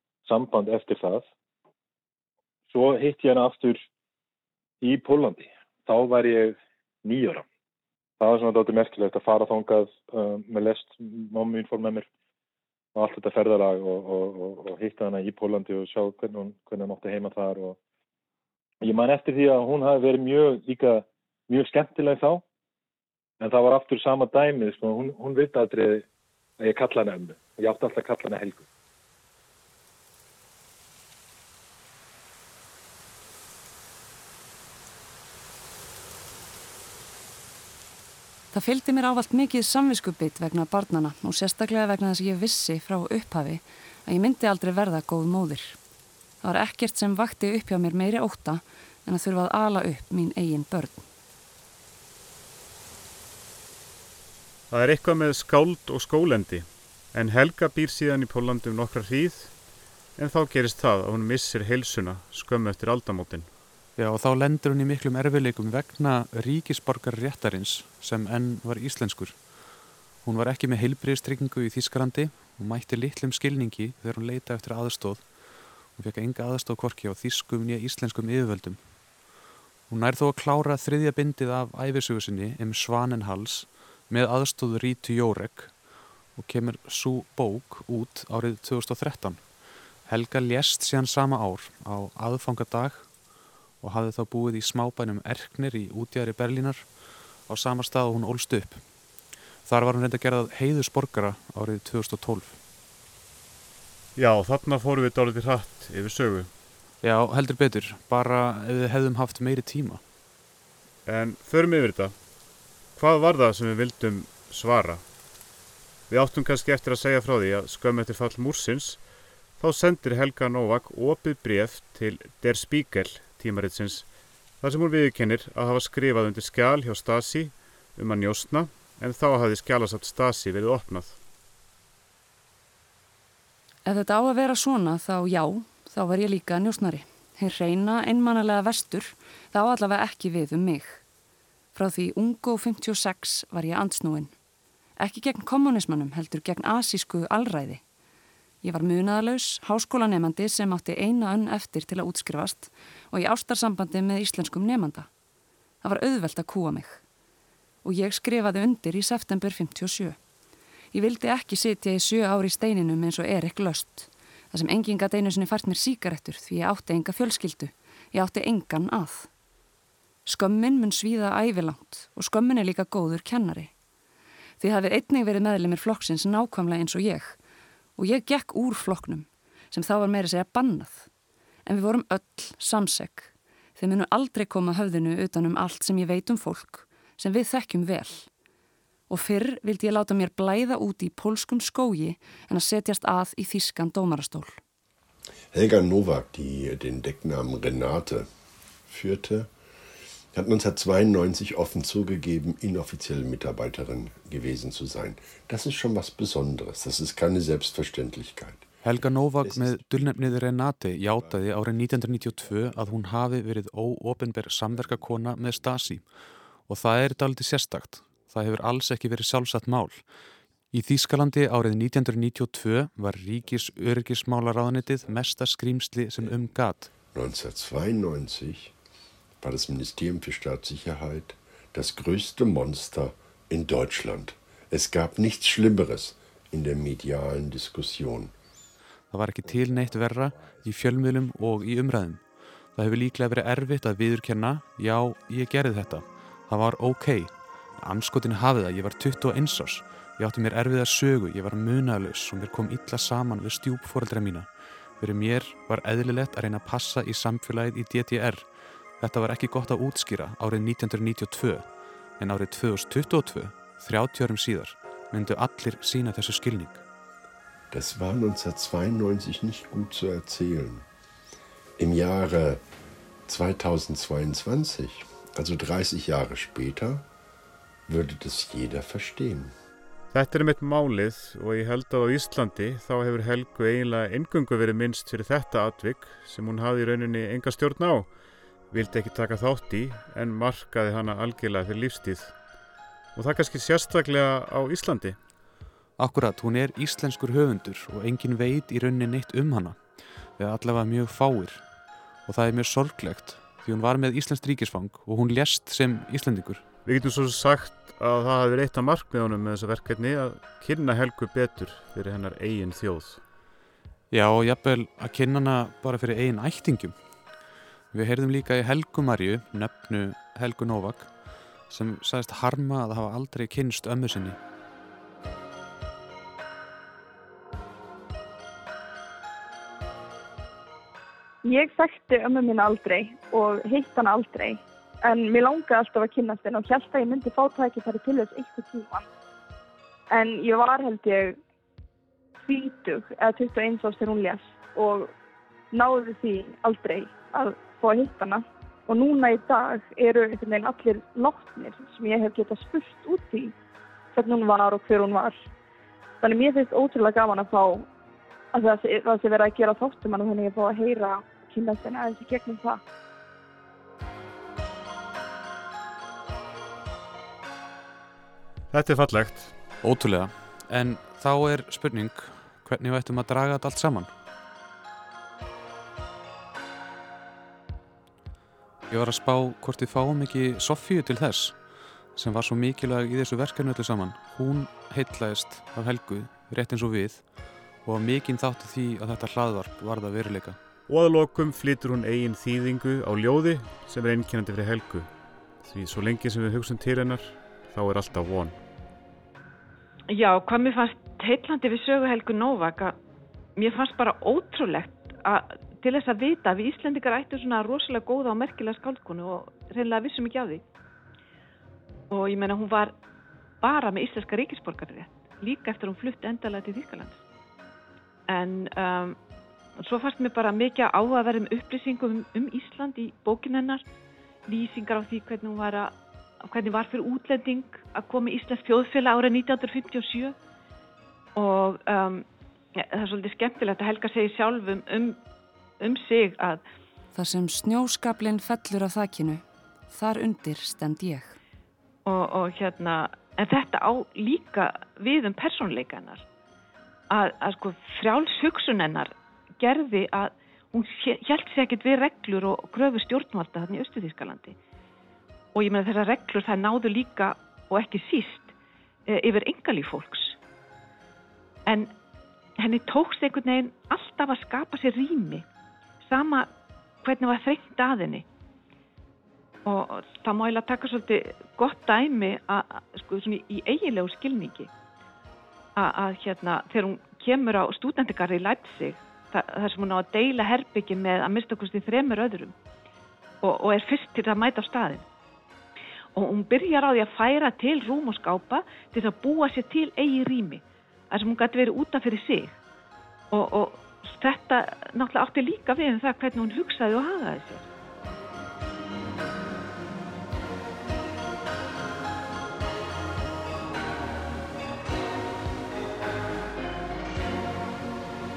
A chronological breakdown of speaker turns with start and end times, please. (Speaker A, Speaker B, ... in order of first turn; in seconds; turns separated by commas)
Speaker A: 0.2-1.3, Speaker A: 2.7-3.8, Speaker A: 4.8-7.5, Speaker A: 8.2-12.1, Speaker A: 12.9-17.8, Speaker A: 18.8-22.4, Speaker A: 23.4-26.1, Speaker A: 26.6-28.7, Speaker B: 38.5-45.8, Speaker B: 46.4-51.0, Speaker C: 54.7-59.5, Speaker C: 60.2-63.5, Speaker D: 64.0-69.4, Speaker D: 70.2-75.3, Speaker D: 75.9-78.8, Speaker D: 79.9-85.8, Speaker D: 86.4-89.5, Speaker D: 90.0-93.1, Speaker D: 93.8-98.8, Speaker D: 99.6-102.6, Speaker C: 104.2-106.5, Speaker D: 107.0-110.0, Speaker C: 111.1-112.2, Speaker C: 113.0-115.0, Speaker C: 116.1-119.0, Speaker C: 119.6-131.2, Speaker B: 133.8-141.0, Speaker B: 141.8-144.3, Speaker B: 145.0-147.8, Speaker B: 148.6-155.1, Speaker B: 155.8-157.0, Speaker B: 157.8-160.2, Speaker B: 160.9-169.3, Speaker B: 170.3-173.7, Speaker B: 174.6-177.4, Speaker B: 178.0-181.1, Speaker B: 181.7-188.3, Speaker B: 189.1-194.6, Speaker E: 195.5-198.3, Speaker E: 198.9-199.5, Speaker E: 200.3-208.7, Speaker D: 208.8-216.1, Speaker E: 209.4-209.8, Speaker D: 216.7-220.0, Speaker D: 220.7-226.9, Speaker E: 227.1-228.7, Speaker E: 229.4-238.3, Speaker D: 239.1-242.2, Speaker D: 242.8-258.5, Speaker D: 259.0-261.7, Speaker D: 262.2-266.8, Speaker E: 267.7-270.9, Speaker E: 271.8-272.6, Speaker E: 273.3-277.1, Speaker E: 277.9-279.5, Speaker C: 280.1-288.1, Speaker C: 288.7-292.4, Speaker C: 293.1-295.2, Speaker D: 296.0-299.8, Speaker D: 300.4-301.6, Speaker D: 302.3-306.6, Speaker C: 306.9-313.2, Speaker D: 314.1-317.0, Speaker D: 317.9-321.1, Speaker D: 321.7-324.4, Speaker F: 331.4-339.1, Speaker F: 340.1-341.4, Speaker F: 342.4-345.1, Speaker F: 345.7-353.5, Speaker F: 354.1-355.4, Speaker F: 356.2-357.9, Speaker F: 358.5-362.8, Speaker C: 368.7-369.6, Speaker D: 369.8-374.1, Speaker D: 378.9-381.6, Speaker D: 382.1-387.3, Speaker D: 387.8-390.6, Speaker C: 390.9-395.1, Speaker C: 395.6-398.6, Speaker G: 400.1-403.0, Speaker G: 403.6-410.6, Speaker G: 412.1-412.9, Speaker G: 413.6-417.2, Speaker G: 418.3-419.2, Speaker G: 419.8-423.8, Speaker G: 424.5-430.4, Speaker G: 431.4-435.2, Speaker G: 435.8-436.6, Speaker B: 437.1-441.4, Speaker G: 442.1-446.2, Speaker G: 447.1-454.6, Speaker G: 455.6-458.5, Speaker G: 459.1-460.4, Speaker G: 461.7-461.9, Speaker G: 462.6-465.4, Speaker G: 466.1-466.5, Speaker G: 467.0-468.2, Speaker G: 469.7-474.7, Speaker G: 475.8-482.6, Speaker G: 483.4-485.1, Speaker G: 486.1-492.6, Speaker G: 493.3-497.7